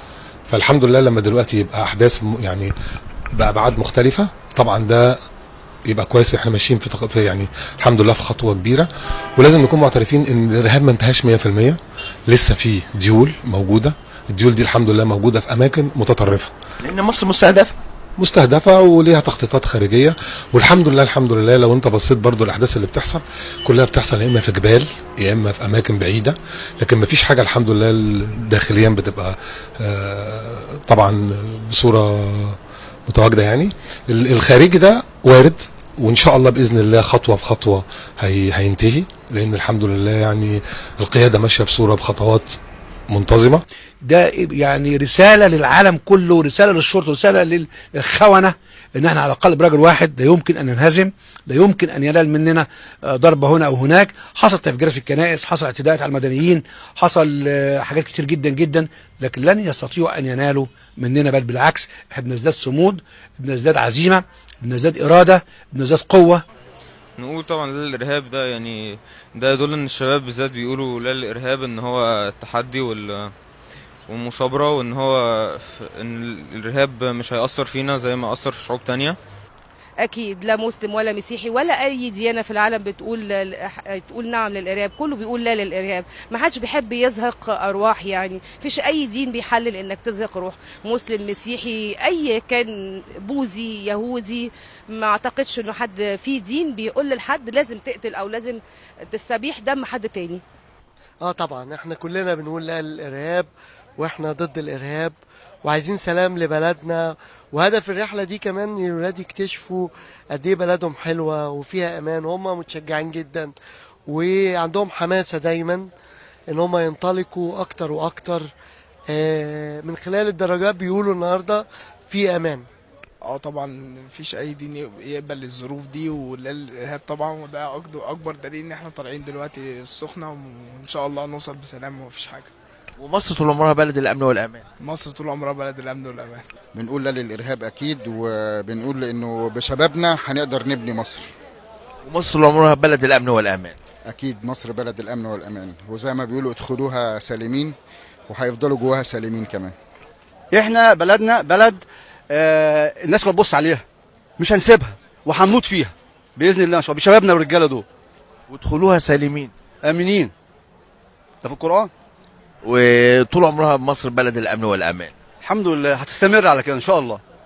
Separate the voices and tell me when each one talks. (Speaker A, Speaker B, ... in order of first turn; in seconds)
Speaker A: 0.5-2.7, 3.3-5.2, 5.9-16.5, 18.2-42.6, 43.1-43.6
Speaker B: 16.9-17.7, 133.0-134.7, 142.0-143.8, 158.5-159.5, 162.6-165.1
Speaker C: 44.0-66.4
Speaker D: 67.2-73.3, 74.1-79.2
Speaker E: 80.1-92.7, 93.2-98.6, 99.1-100.4
Speaker F: 101.2-113.5, 114.1-115.9, 116.5-118.5, 119.1-122.7
Speaker G: 123.2-132.5, 134.8-136.4
Speaker H: 136.8-141.3, 144.1-147.8, 148.3-149.7
Speaker I: 150.5-153.8, 154.4-157.8, 159.8-160.3, 161.4-161.9, 165.4-167.2